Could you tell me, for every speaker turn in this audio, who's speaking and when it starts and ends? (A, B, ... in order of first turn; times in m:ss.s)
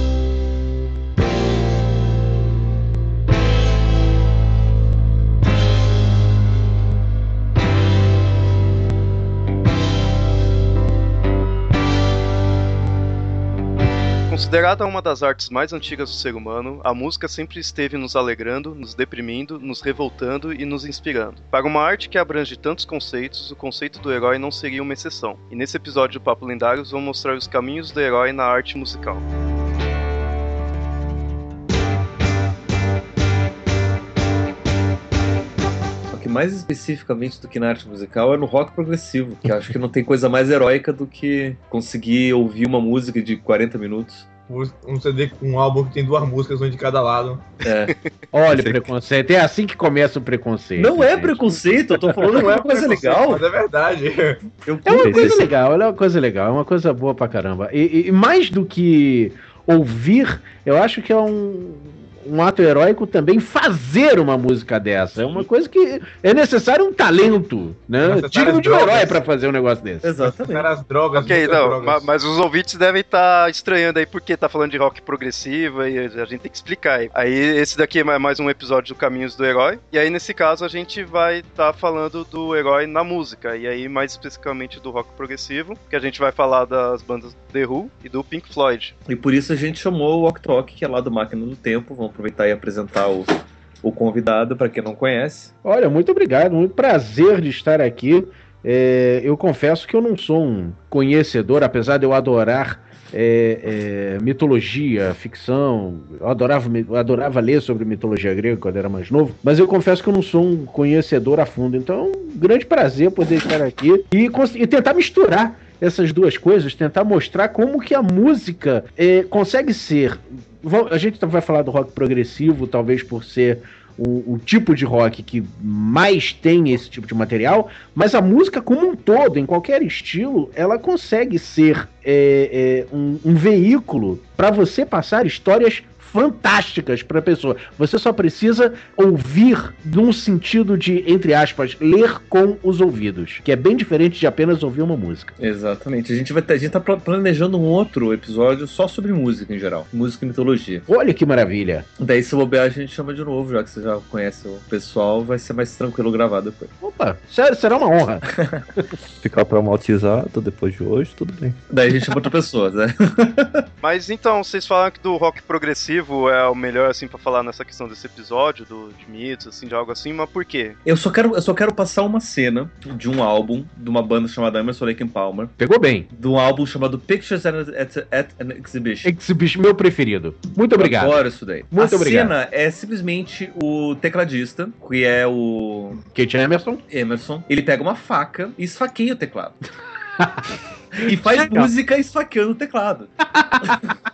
0:14.3-0:29.2 A
0:36.1-0:44.2 B
0:44.5-0:47.4 C
0:47.6-0:47.9 B
0:48.3-0:51.4 D
0:48.5-0:48.8 E
0:50.8-0:53.4 B
0:52.2-0:54.4 C
0:54.6-0:55.4 B
0:54.8-1:10.1 D
0:55.0-0:55.4 E
1:08.0-1:09.2 C
1:10.0-1:10.7 B
1:10.2-1:12.0 C
1:11.2-1:28.9 A
1:29.1-1:33.3 B
1:33.8-1:35.5 B
1:35.6-2:25.4 D
2:25.4-2:30.8 B
2:30.9-2:31.9 D
2:32.0-2:36.7 B
2:36.8-2:38.3 D
2:38.3-2:38.6 B
2:39.2-2:41.6 E
2:41.7-2:43.6 B
2:43.8-2:50.8 A
2:50.8-2:55.5 B
2:55.6-2:56.1 D
2:56.1-2:59.1 B
2:59.0-3:02.3 D
3:00.8-3:06.0 B
3:06.1-3:06.8 D
3:06.9-3:09.6 B
3:10.2-3:10.5 D
3:11.0-3:13.1 B
3:11.0-3:11.7 D
3:13.3-3:13.8 D
3:13.6-3:13.9 B